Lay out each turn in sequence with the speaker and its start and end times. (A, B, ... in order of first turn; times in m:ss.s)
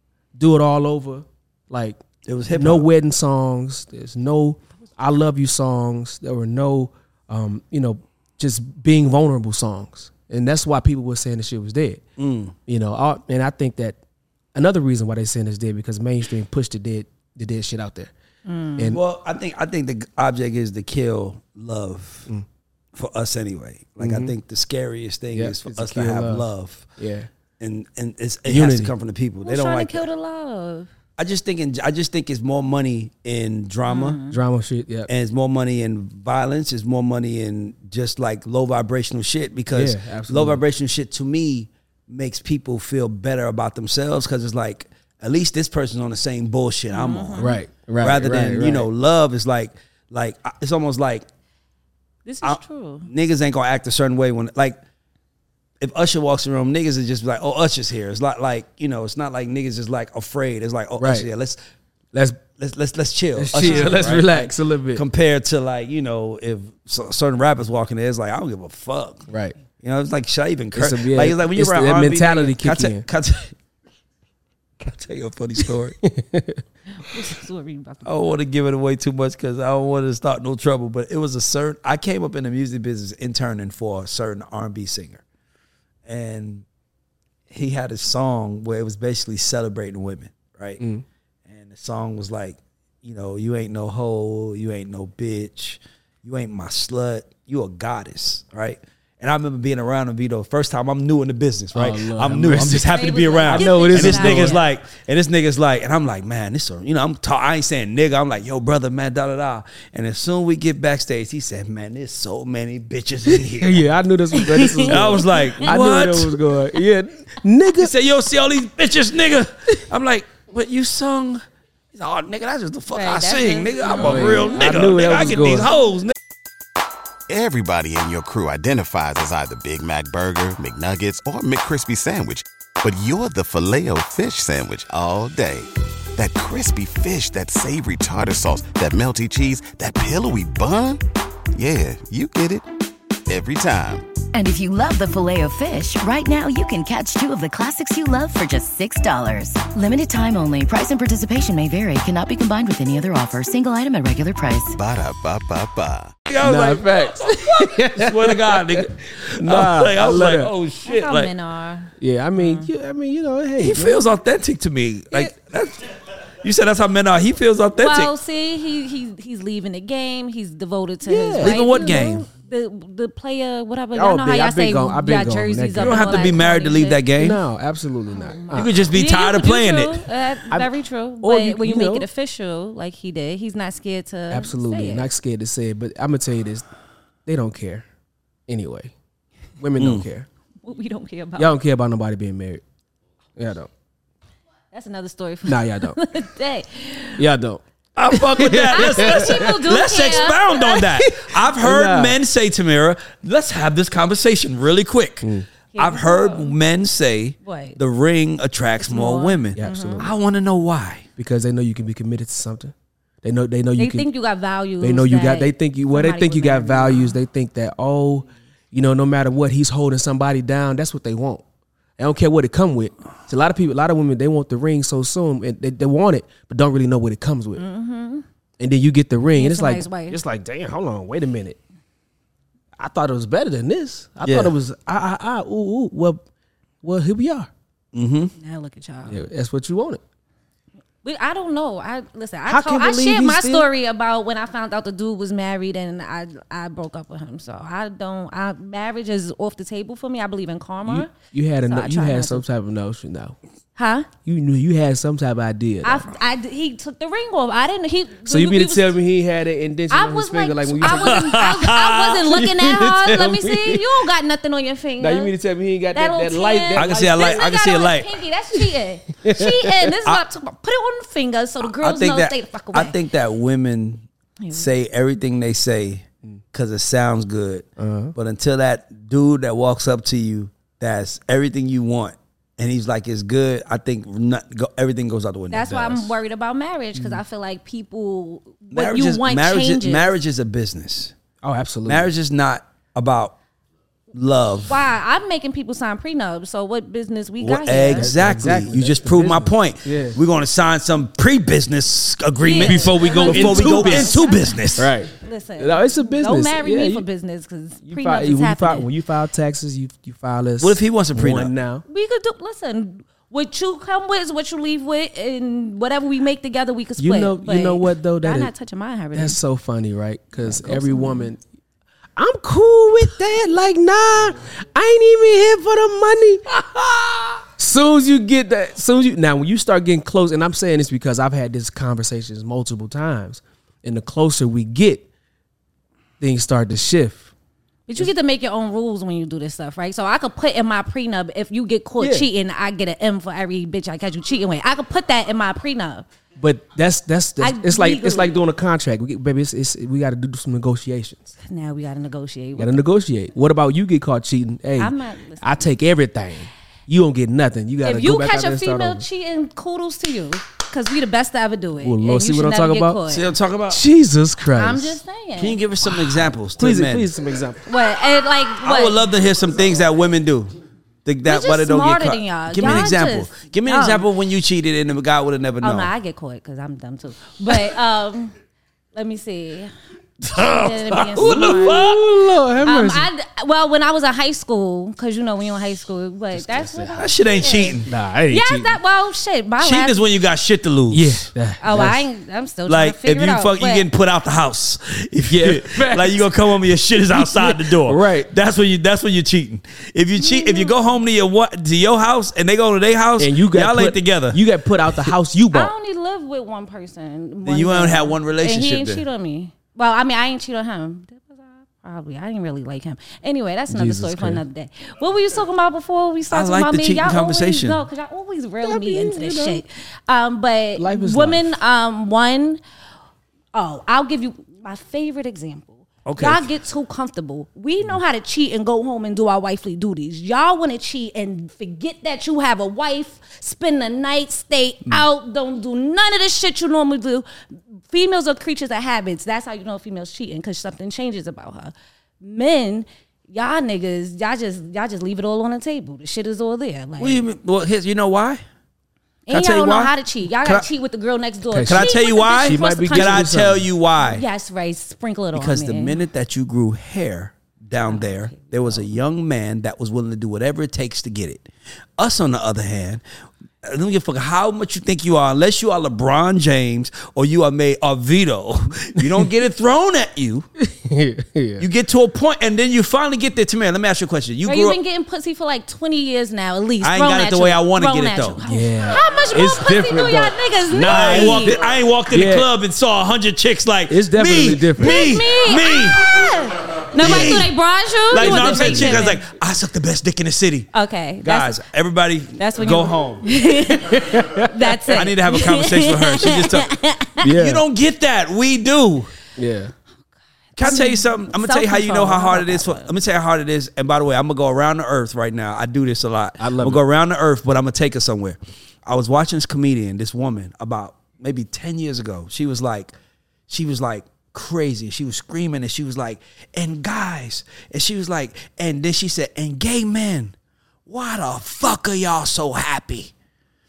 0:00.4-0:12.0 A
0:02.3-0:02.9 B
0:12.2-0:12.6 B
0:12.7-0:14.0 A
0:14.6-0:18.1 A
0:18.4-0:19.0 C
0:18.9-0:22.3 B
0:23.0-0:26.9 B
0:24.0-0:24.3 A
0:25.3-0:26.5 A
0:27.0-0:27.3 A
0:27.6-0:30.1 B
0:28.5-0:28.9 A
0:29.4-0:30.9 C
0:31.2-0:34.2 B
0:33.9-0:34.4 C
0:34.3-0:35.1 A
0:35.1-0:51.2 B
0:39.7-0:40.6 A
0:46.9-0:47.6 C
0:47.4-0:48.9 A
0:52.3-0:53.1 C
0:52.4-0:54.8 B
0:55.8-1:01.6 B
1:01.0-1:01.3 A
1:02.1-1:02.4 A
1:02.6-1:09.3 B
1:03.4-1:05.0 A
1:03.6-1:04.1 C
1:09.3-1:09.6 A
1:09.8-1:13.5 B
1:10.7-1:13.1 A
1:14.8-1:16.0 B
1:15.6-1:16.6 A
1:16.9-1:18.3 C
1:18.0-1:25.2 B
1:26.1-1:26.6 B
1:27.5-1:30.8 B
1:30.8-1:31.0 A
1:31.5-1:53.9 B
1:41.7-1:43.0 A
1:42.9-1:44.6 C
1:43.5-1:44.6 A
1:53.3-1:57.9 A
1:54.4-1:55.7 C
1:54.8-1:56.4 B
1:57.8-2:01.4 B
2:01.9-2:06.1 B
2:02.9-2:04.8 C
2:03.9-2:05.7 A
2:07.3-2:21.0 D
2:21.6-2:22.6 D
2:23.3-2:24.1 D
2:24.3-2:34.8 E
2:34.8-2:36.1 D
2:36.3-2:41.3 B
2:36.4-2:40.5 A
2:40.8-2:42.7 C
2:42.0-2:44.0 A
2:43.6-2:48.1 B
2:47.8-2:57.0 C
2:51.0-2:52.2 A
2:51.4-2:52.3 B
2:53.9-2:56.4 A
2:55.8-2:57.4 B
2:57.2-2:58.8 A
2:58.1-3:05.1 C
2:58.5-3:00.0 B
3:01.2-3:02.1 A
3:04.3-3:06.6 A
3:07.3-3:07.9 A
3:08.5-3:08.9 A
3:09.6-3:10.3 A
3:09.8-3:10.1 B
3:10.6-3:11.5 C
3:11.4-3:12.6 A
3:13.4-3:13.7 A
3:14.7-3:17.2 C
3:15.5-3:16.0 A
3:17.2-3:19.6 A
3:18.0-3:31.1 B
3:18.5-3:20.6 C
3:20.6-3:22.2 A
3:25.2-3:25.5 A
3:25.7-3:26.5 C
3:27.4-3:27.8 C
3:28.8-3:30.1 C
3:29.6-3:30.1 A
3:31.2-3:34.1 A
3:33.8-3:37.2 C
3:34.8-3:41.4 A
3:42.0-3:47.6 A
3:47.6-3:48.2 C
3:48.6-3:51.6 A
3:49.4-3:50.2 C
3:52.8-3:56.2 A
3:54.2-3:54.5 B
3:56.8-3:57.5 A
3:57.9-3:58.3 B
3:58.4-3:59.2 C
3:59.1-4:00.0 A
4:01.0-4:11.1 C
4:02.5-4:03.7 A
4:10.9-4:13.4 A
4:11.6-4:12.4 C
4:13.8-4:14.1 C
4:14.2-4:16.1 A
4:15.8-4:19.0 C
4:18.2-4:21.5 A
4:19.9-4:25.3 C
4:20.8-4:22.2 B
4:22.2-4:23.9 A
4:25.0-4:27.4 A
4:25.9-4:33.0 C
4:26.8-4:28.1 B
4:29.2-4:29.7 A
4:31.6-4:46.0 B
4:34.4-4:34.7 C
4:37.8-4:38.2 A
4:45.5-4:50.2 C
4:45.7-4:46.1 A
4:47.0-4:47.2 A
4:48.7-4:51.1 B
4:51.4-4:52.1 A
4:51.9-4:53.4 B
4:54.1-4:54.8 B
4:54.7-4:58.1 C
4:57.4-5:04.9 B
4:58.0-5:00.2 A
5:02.4-5:08.9 C
5:02.6-5:04.2 A
5:04.8-5:07.1 A
5:07.8-5:11.8 A
5:10.6-5:11.5 B
5:11.9-5:19.4 C
5:17.0-5:18.5 A
5:19.1-5:21.4 A
5:20.4-5:21.3 C
5:22.2-5:35.1 A
5:36.2-5:37.3 A
5:37.9-5:46.1 C
5:42.0-5:42.3 A
5:46.4-5:51.3 A
5:47.4-5:48.4 C
5:51.4-5:52.8 C
5:52.6-5:59.0 A
5:54.8-5:55.7 C
5:57.8-6:03.3 C
6:01.8-6:03.0 A
6:03.1-6:03.8 B
6:03.7-6:05.0 A
6:04.6-6:05.6 C
6:05.4-6:07.1 B
6:06.6-6:07.6 A
6:07.7-6:09.0 C
6:08.6-6:10.5 B
6:11.0-6:15.9 B
6:11.2-6:14.1 C
6:15.6-6:18.3 C
6:18.9-6:19.7 C
6:20.2-6:21.9 C
6:20.2-6:22.0 B
6:21.2-6:23.1 A
6:22.6-6:30.0 C
6:26.3-6:27.3 A
6:27.0-6:27.9 B
6:27.8-6:28.8 A
6:29.6-6:31.3 B
6:30.9-6:32.0 A
6:31.6-6:33.9 C
6:32.7-6:44.4 B
6:35.3-6:36.3 A
6:37.1-6:38.3 A
6:40.2-6:40.8 C
6:43.2-6:45.7 A
6:45.5-7:02.6 C
6:47.4-6:49.0 B
6:53.7-6:54.4 A
6:56.3-6:57.8 B
6:58.6-6:59.6 A
7:00.8-7:01.6 A
7:03.6-7:17.3 C
7:06.1-7:06.5 B
7:17.9-7:27.2 C
7:27.0-7:28.4 B
7:29.3-7:33.4 C
7:29.3-7:30.7 B
7:31.5-7:33.7 A
7:31.7-7:34.2 B
7:34.0-7:36.0 C
7:35.3-7:41.5 B
7:37.9-7:38.8 C
7:42.0-7:43.0 B
7:43.6-7:50.5 B
7:50.6-7:51.6 A
7:51.6-7:54.8 B
7:54.5-8:01.6 C
7:56.8-7:58.4 B
7:58.5-8:02.5 A
8:00.8-8:06.1 B
8:03.9-8:05.1 A
8:04.8-8:09.2 C
8:07.0-8:07.5 B
8:08.1-8:10.7 B
8:08.2-8:09.0 A
8:10.7-8:11.6 C
8:11.2-8:13.3 B
8:12.4-8:17.3 C
8:13.7-8:15.0 A
8:14.9-8:19.1 B
8:17.2-8:17.6 A
8:19.4-8:19.7 A
8:20.6-8:32.9 B
8:20.6-8:22.9 C
8:26.4-8:26.8 A
8:33.5-8:40.3 B
8:40.9-8:43.1 B